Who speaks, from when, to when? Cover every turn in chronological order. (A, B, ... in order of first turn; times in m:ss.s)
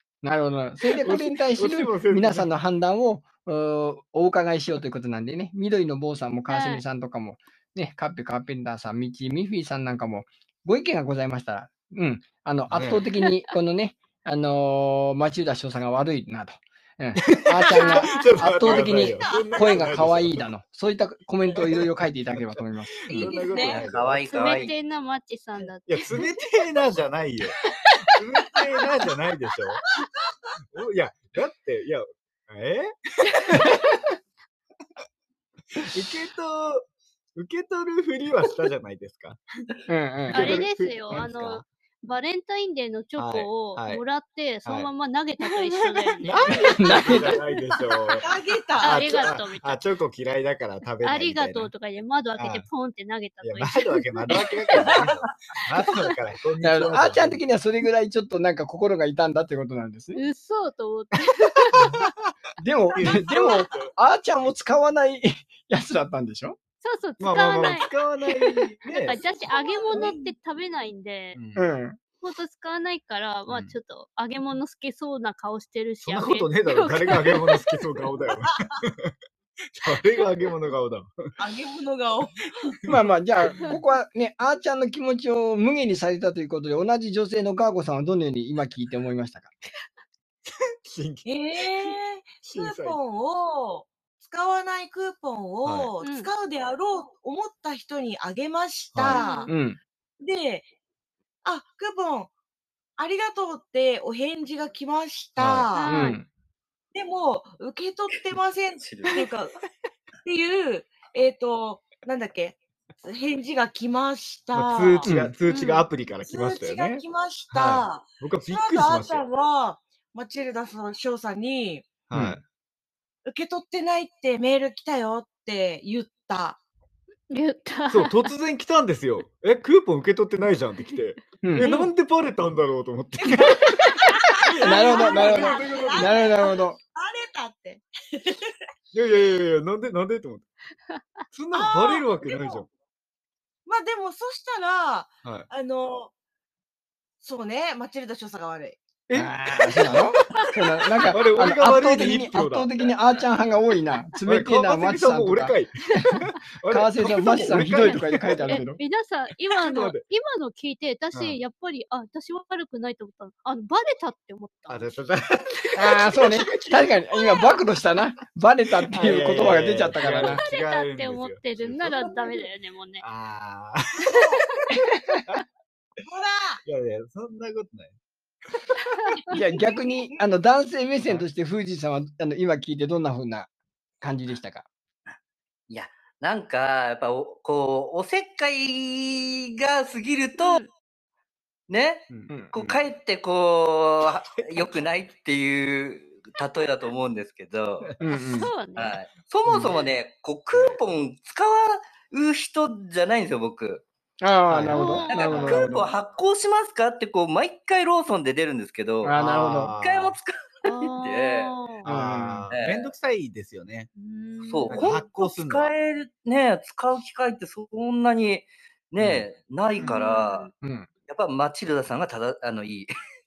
0:00.2-0:23.3 A
0:01.0-0:02.5 B
0:06.5-0:06.8 C
0:12.7-0:13.0 B
0:17.2-0:20.5 B
0:17.7-0:18.3 C
0:21.6-0:24.6 B
0:23.1-0:23.8 D
0:23.6-0:24.7 E
0:24.3-0:26.1 C
0:25.9-0:29.9 B
0:30.7-0:33.8 B
0:35.8-0:39.4 B
0:39.9-0:40.7 A
0:40.3-0:41.6 B
0:40.3-0:47.5 C
0:43.2-0:44.0 B
0:45.6-0:46.1 D
0:46.3-0:48.3 B
0:46.6-0:47.4 A
0:48.2-0:49.3 D
0:48.8-0:49.8 C
0:48.8-0:51.7 B
0:51.0-0:55.0 C
0:52.4-0:52.7 B
0:53.4-0:57.4 B
0:54.8-0:55.0 D
0:55.8-0:56.1 C
0:56.6-1:00.2 A
1:00.1-1:02.0 C
1:01.7-1:02.1 B
1:02.6-1:06.6 A
1:03.0-1:03.9 B
1:06.8-1:11.4 C
1:07.2-1:09.3 B
1:09.5-1:10.3 D
1:11.3-1:11.6 B
1:11.6-1:12.0 A
1:12.2-1:17.8 C
1:13.5-1:13.8 B
1:16.0-1:19.1 B
1:19.8-1:21.3 B
1:21.4-1:22.8 D
1:22.9-1:29.5 A
1:30.5-1:33.0 B
1:31.2-1:39.5 D
1:35.6-1:35.9 B
1:36.0-1:36.3 C
1:38.9-1:39.2 B
1:39.1-1:39.5 C
1:39.5-1:39.8 A
1:40.2-1:40.7 D
1:41.4-1:42.3 D
1:43.0-1:46.0 D
1:45.4-1:45.7 B
1:45.8-1:46.2 C
1:45.9-1:46.3 A
1:46.9-1:49.6 D
1:48.8-1:49.3 E
1:50.2-1:55.1 D
1:54.5-1:59.2 B
1:55.0-1:55.3 A
1:55.5-1:55.9 C
1:56.3-2:01.9 D
2:02.1-2:02.4 B
2:02.1-2:02.4 A
2:03.3-2:06.6 D
2:07.3-2:08.2 C
2:07.9-2:16.5 B
2:11.4-2:11.7 A
2:11.6-2:11.9 C
2:14.4-2:18.6 D
2:14.6-2:16.8 A
2:18.9-2:20.5 B
2:21.3-2:22.7 B
2:21.5-2:22.6 D
2:23.7-2:26.1 D
2:27.2-2:28.8 D
2:29.1-2:30.5 B
2:29.1-2:38.8 A
2:31.0-2:32.9 B
2:34.2-2:38.6 B
2:37.4-2:44.9 C
2:39.5-2:40.0 B
2:41.1-2:41.4 B
2:44.7-2:46.8 B
2:45.8-2:50.4 A
2:48.9-2:52.0 B
2:50.1-2:53.0 C
2:53.0-2:54.3 B
2:54.1-2:54.4 D
2:54.3-2:54.6 C
2:56.0-2:56.6 D
2:56.6-2:57.9 B
2:59.3-3:03.5 A
2:59.3-3:00.1 D
3:04.0-3:04.7 A
3:05.7-3:10.6 E
3:10.4-3:10.7 C
3:11.7-3:18.0 E
3:12.1-3:12.8 B
3:14.4-3:14.7 B
3:18.0-3:18.5 A
3:18.3-3:19.0 C
3:18.8-3:23.8 E
3:19.5-3:19.8 A
3:20.5-3:20.8 B
3:24.2-3:25.9 A
3:24.5-3:25.8 B
3:24.7-3:25.5 C
3:25.1-3:29.2 E
3:29.0-3:29.7 A
3:29.2-3:30.2 B
3:29.8-3:31.5 E
3:30.6-3:31.8 C
3:31.8-3:33.9 B
3:31.8-3:32.5 A
3:32.5-3:32.9 E
3:34.0-3:34.9 C
3:34.4-3:40.5 E
3:34.7-3:35.7 B
3:39.0-3:39.3 B
3:39.8-3:40.5 C
3:40.6-3:40.9 A
3:41.0-3:42.9 E